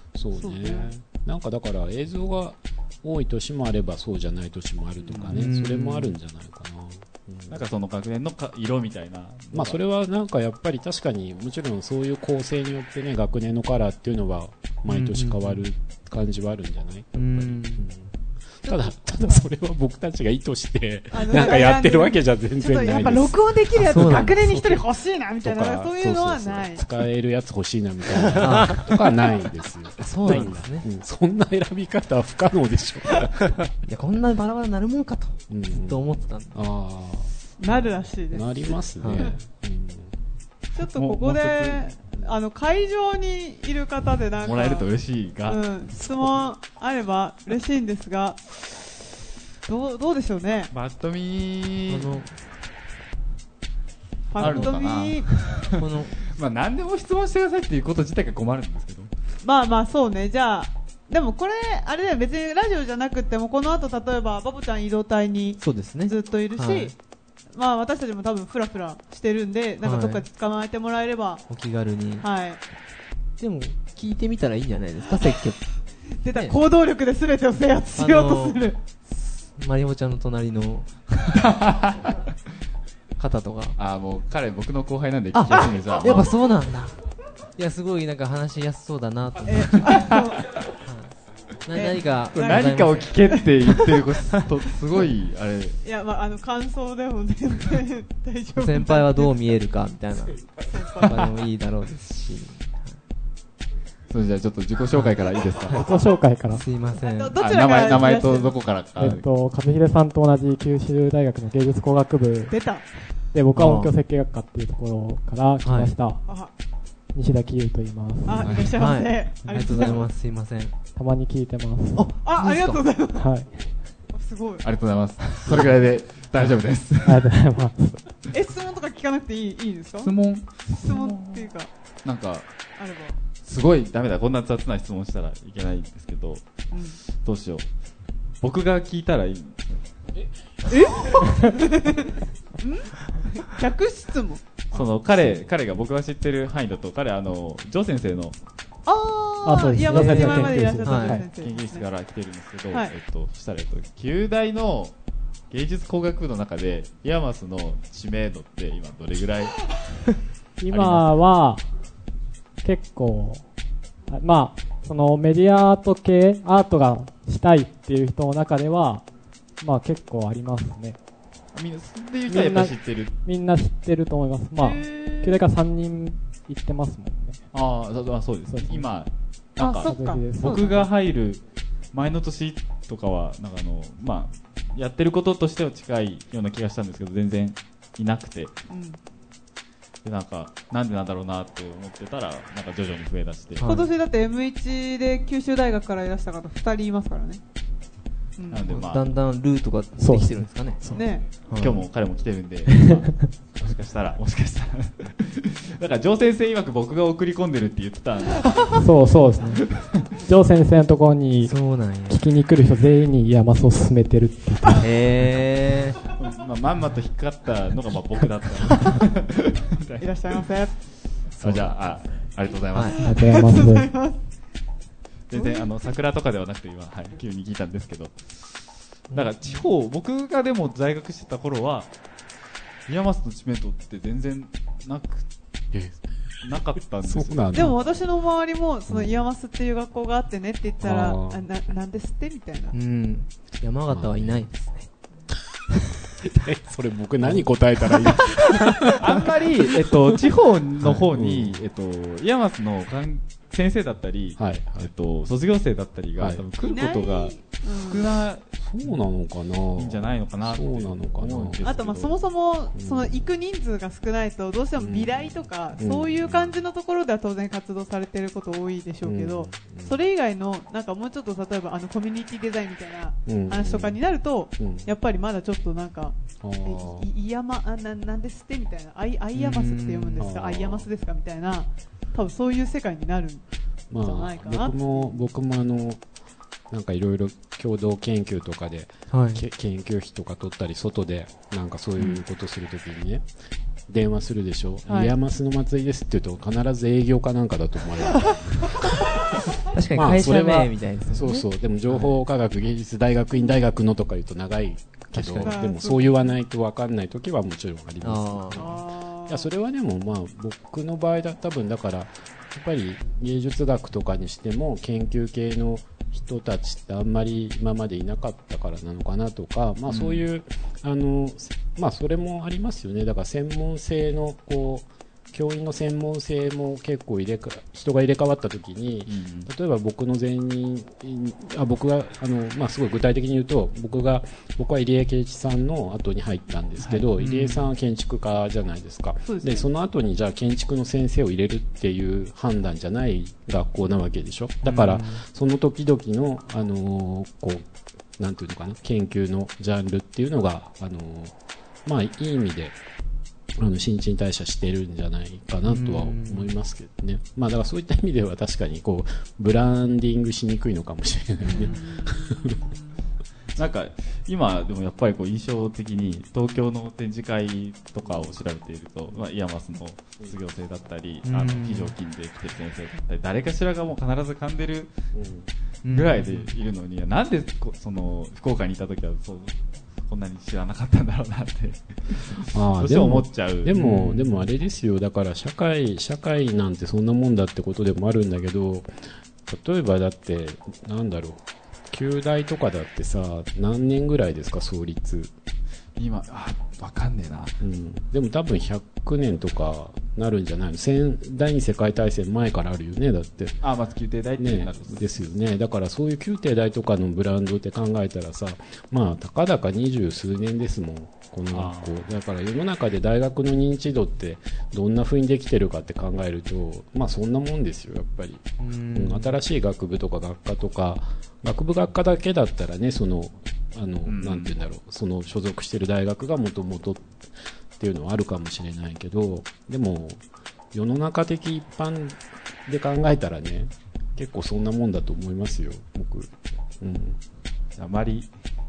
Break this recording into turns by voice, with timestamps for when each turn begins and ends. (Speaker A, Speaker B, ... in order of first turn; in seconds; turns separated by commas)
Speaker A: 0.1-7.6, Speaker B: 5.1-5.4, Speaker C: 5.3-6.2, Speaker B: 7.5-9.8, Speaker A: 9.5-24.9, Speaker C: 14.9-15.6, Speaker C: 17.2-17.9, Speaker C: 18.7-19.4, Speaker D: 21.1-26.9, Speaker C: 23.8-24.4, Speaker A: 25.4-33.7, Speaker C: 28.4-28.9, Speaker C: 30.0-30.9, Speaker C: 33.8-36.6, Speaker A: 35.5-40.1, Speaker D: 37.6-38.7, Speaker C: 39.0-39.3, Speaker B: 40.8-41.9, Speaker D: 40.8-44.9, Speaker B: 44.4-46.3, Speaker D: 45.5-49.0, Speaker D: 49.7-50.7, Speaker B: 50.7-52.2, Speaker C: 51.9-52.4, Speaker D: 54.3-55.3, Speaker B: 54.4-59.1, Speaker C: 54.4-54.8, Speaker C: 55.7-56.2, Speaker D: 59.4-67.0, Speaker C: 65.6-66.9, Speaker D: 67.5-71.5, Speaker C: 69.8-70.2, Speaker C: 71.5-72.3, Speaker D: 72.2-72.6, Speaker C: 73.4-75.6, Speaker D: 76.2-78.8, Speaker C: 78.0-80.9, Speaker B: 81.3-82.2, Speaker C: 83.2-83.8, Speaker B: 83.8-86.3, Speaker C: 85.3-87.0, Speaker C: 87.6-89.9, Speaker D: 89.5-90.5, Speaker B: 89.9-90.2, Speaker C: 90.8-93.1, Speaker D: 91.7-92.7, Speaker B: 92.3-95.8, Speaker D: 93.3-94.0, Speaker D: 95.8-99.3, Speaker C: 98.5-100.5, Speaker D: 100.7-101.3, Speaker C: 101.0-103.0, Speaker B: 104.1-105.9, Speaker E: 105.7-106.7, Speaker C: 106.5-107.4, Speaker D: 107.0-108.7, Speaker B: 107.4-109.2, Speaker E: 109.0-112.6, Speaker D: 112.5-113.1, Speaker E: 113.3-116.2, Speaker C: 113.5-113.9, Speaker C: 115.6-115.9, Speaker D: 116.3-116.5, Speaker E: 117.1-118.8, Speaker D: 118.2-120.0, Speaker B: 118.3-118.7, Speaker C: 118.8-120.8, Speaker E: 119.7-120.0, Speaker E: 121.0-122.1, Speaker C: 122.0-122.8, Speaker D: 122.1-123.3, Speaker E: 123.2-123.6, Speaker D: 124.1-124.7, Speaker B: 124.6-127.3, Speaker E: 127.0-128.2, Speaker D: 128.3-130.1, Speaker B: 130.0-131.4, Speaker D: 130.8-131.7, Speaker B: 132.0-132.5, Speaker D: 132.8-133.2, Speaker B: 133.4-137.7, Speaker D: 136.7-137.0, Speaker B: 138.4-139.8, Speaker D: 140.7-144.4, Speaker B: 144.7-148.4, Speaker D: 148.9-151.8, Speaker E: 149.4-151.3, Speaker C: 149.9-151.2, Speaker B: 151.4-155.0, Speaker B: 155.5-160.2, Speaker E: 160.6-161.7, Speaker B: 160.7-161.1, Speaker E: 162.6-163.5, Speaker E: 164.1-171.0, Speaker B: 171.5-173.2, Speaker E: 172.3-177.5, Speaker D: 174.6-175.4, Speaker B: 177.5-188.6, Speaker E: 178.5-178.9, Speaker D: 179.6-180.9, Speaker E: 179.6-180.8, Speaker D: 188.7-189.0, Speaker B: 190.0-193.7, Speaker C: 193.6-193.9, Speaker D: 193.7-197.4, Speaker D: 198.4-198.7, Speaker B: 198.5-199.1, Speaker C: 198.7-201.8, Speaker E: 200.0-201.2, Speaker D: 200.9-201.3, Speaker B: 201.5-208.8, Speaker E: 202.7-203.1, Speaker E: 208.8-214.8, Speaker C: 211.4-212.2, Speaker C: 214.8-216.0, Speaker B: 216.2-220.5, Speaker D: 220.0-220.8, Speaker B: 221.4-223.4, Speaker C: 222.7-223.0, Speaker D: 222.9-224.2, Speaker E: 223.0-223.9, Speaker B: 225.3-228.6, Speaker D: 225.3-225.7, Speaker B: 229.1-231.9, Speaker B: 232.9-235.3, Speaker A: 235.7-236.0, Speaker B: 236.4-237.8, Speaker A: 236.5-237.8, Speaker D: 237.5-242.8, Speaker A: 238.9-239.2, Speaker A: 240.8-241.5, Speaker C: 242.7-244.9, Speaker A: 243.9-244.4, Speaker A: 246.2-249.5, Speaker B: 249.0-258.4, Speaker A: 251.1-251.6, Speaker A: 254.4-254.9, Speaker A: 256.2-256.4, Speaker D: 256.6-258.1, Speaker A: 258.6-261.6, Speaker B: 259.8-262.2, Speaker D: 261.6-283.4, Speaker A: 262.8-263.2, Speaker A: 264.8-266.4, Speaker A: 269.0-270.0, Speaker A: 273.3-274.0, Speaker A: 274.6-274.9, Speaker A: 276.4-277.1, Speaker C: 279.3-280.3, Speaker A: 280.2-280.9, Speaker A: 283.9-286.0, Speaker D: 284.0-285.2, Speaker A: 286.7-293.3, Speaker C: 289.1-289.4, Speaker A: 293.9-299.4, Speaker D: 294.9-295.1, Speaker C: 299.7-302.2, Speaker A: 299.9-347.7, Speaker C: 305.1-305.6, Speaker D: 305.4-306.3, Speaker C: 308.0-308.6, Speaker D: 308.6-309.5, Speaker B: 319.9-320.2, Speaker B: 329.1-329.5, Speaker B: 336.8-337.1, Speaker C: 337.2-337.7, Speaker D: 339.3-339.6, Speaker C: 344.6-345.2, Speaker A: 348.2-352.8, Speaker A: 353.6-362.6, Speaker C: 355.6-356.5, Speaker D: 361.5-363.0, Speaker B: 363.6-374.9, Speaker A: 368.0-368.3, Speaker C: 371.2-371.9, Speaker A: 375.1-375.5, Speaker C: 375.8-376.5, Speaker B: 375.9-383.8, Speaker A: 382.5-388.9, Speaker C: 383.7-384.4, Speaker A: 389.5-395.3, Speaker B: 396.0-397.5, Speaker A: 397.6-403.6, Speaker B: 403.6-405.2, Speaker A: 404.4-437.2, Speaker B: 411.5-412.1, Speaker C: 418.6-419.4, Speaker B: 424.1-424.6, Speaker B: 437.8-438.3